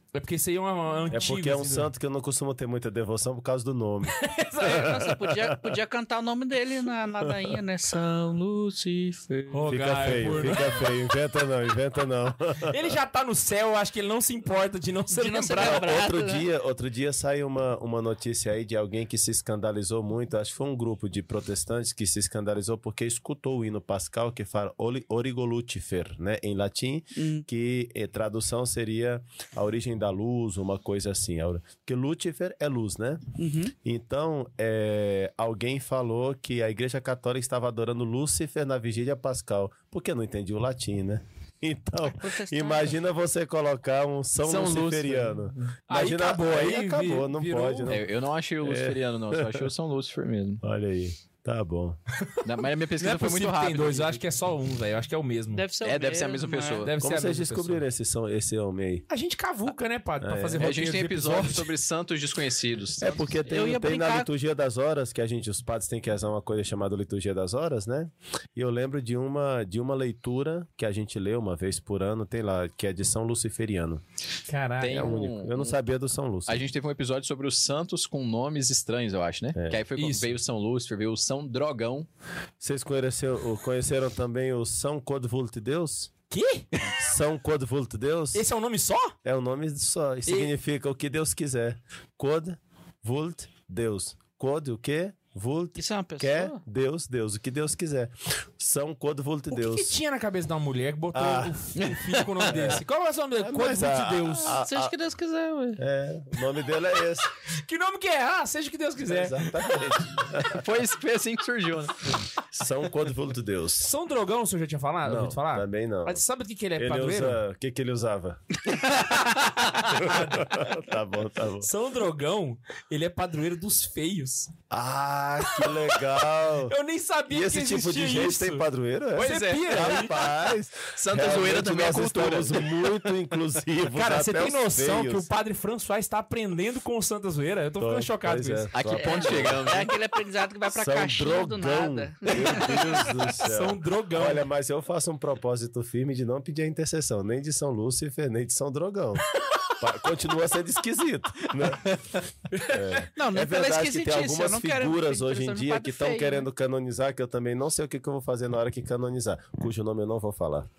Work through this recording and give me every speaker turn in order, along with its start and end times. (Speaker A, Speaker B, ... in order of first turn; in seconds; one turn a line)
Speaker A: 0.1-1.9
Speaker B: 1.1-5.8
Speaker A: 4.1-5.0
Speaker C: 4.6-9.7
Speaker B: 7.3-7.5
Speaker A: 9.5-11.0
Speaker B: 9.7-12.7
Speaker A: 12.6-15.8
Speaker C: 15.1-16.4
Speaker B: 15.6-33.2
Speaker C: 27.1-27.4
Speaker C: 33.4-33.7
Speaker B: 33.8-48.1
Speaker C: 42.1-42.9
Speaker D: 44.4-45.5
Speaker A: 45.9-47.9
Speaker D: 47.9-50.6
Speaker B: 48.6-49.7
Speaker B: 50.6-52.0
Speaker D: 52.4-54.2
Speaker A: 53.0-55.6
Speaker C: 55.5-56.9
Speaker D: 55.8-56.9
Speaker A: 56.8-57.8
Speaker B: 57.0-59.0
Speaker A: 59.1-61.7
Speaker B: 60.2-60.7
Speaker D: 60.6-63.5
Speaker B: 63.0-74.0
Speaker C: 63.5-64.3
Speaker A: 74.5-75.1
Speaker D: 74.8-75.7
Speaker B: 74.8-76.6
Speaker D: 76.5-82.1
Speaker B: 79.5-79.8
Speaker A: 79.9-80.3
Speaker B: 82.6-86.1
Speaker A: 86.3-86.7
Speaker B: 87.0-88.4
Speaker A: 88.3-89.2
Speaker B: 89.2-100.0
Speaker A: 90.3-90.5
Speaker C: 95.8-96.6
Speaker A: 99.5-104.6
Speaker B: 101.1-101.5
Speaker D: 101.8-102.8
Speaker B: 102.5-102.8
Speaker B: 103.4-104.9
Speaker C: 104.5-105.8
Speaker B: 105.8-107.3
Speaker A: 107.5-109.9
Speaker B: 109.0-110.6
Speaker D: 110.5-112.2
Speaker B: 112.5-113.9
Speaker A: 113.8-117.4
Speaker B: 115.0-116.2
Speaker B: 116.8-118.4
Speaker A: 118.7-120.7
Speaker B: 119.8-121.7
Speaker A: 121.6-124.5
Speaker B: 124.7-126.7
Speaker A: 125.5-125.9
Speaker A: 126.7-130.1
Speaker B: 127.3-135.3
Speaker D: 129.2-130.4
Speaker D: 131.1-132.9
Speaker A: 133.9-138.7
Speaker B: 137.8-139.7
Speaker D: 138.7-139.9
Speaker C: 138.9-143.3
Speaker B: 140.7-152.0
Speaker A: 143.4-144.4
Speaker A: 152.5-153.0
Speaker B: 152.6-160.7
Speaker C: 153.1-156.4